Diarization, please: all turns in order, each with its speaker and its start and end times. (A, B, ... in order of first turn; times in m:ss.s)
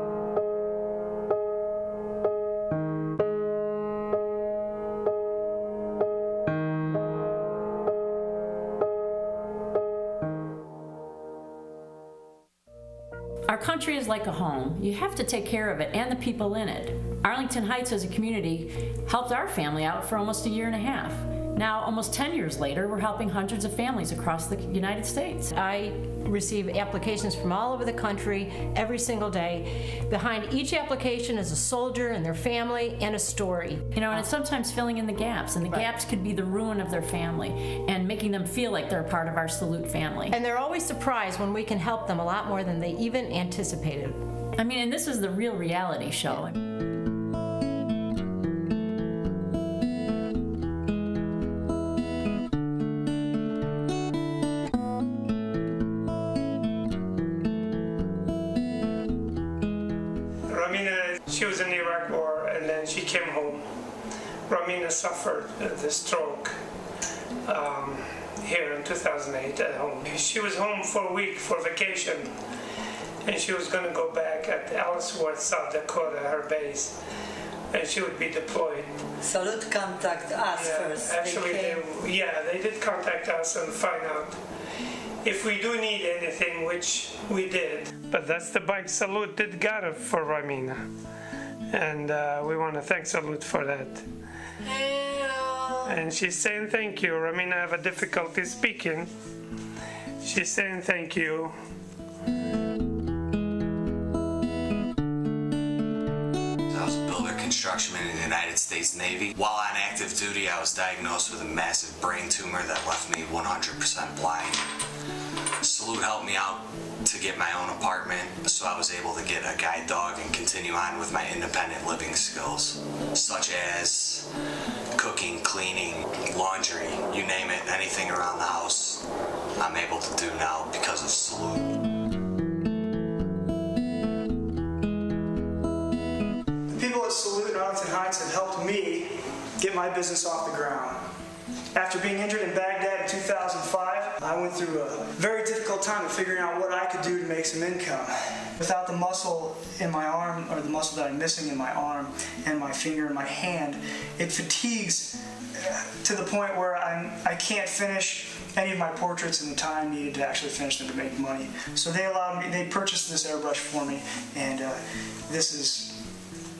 0:13.5-0:25.6 A
0:25.6-0:33.8 B
0:33.9-0:40.4 A
0:40.3-0:44.2 B
0:44.6-0:46.5 A
1:00.5-1:03.7 C
1:04.5-1:06.6 C
1:07.4-1:12.4 C
1:13.2-1:17.0 C
1:17.7-1:18.9 C
1:19.2-1:21.8 D
1:20.5-1:24.4 C
1:25.2-1:30.8 C
1:31.7-1:34.0 C
1:35.8-1:39.1 C
1:40.2-1:41.5 C
1:46.7-1:54.6 E
1:55.6-2:04.3 E
2:05.0-2:09.0 E
2:09.6-2:11.7 E
2:16.7-2:21.0 F
2:21.7-2:46.0 F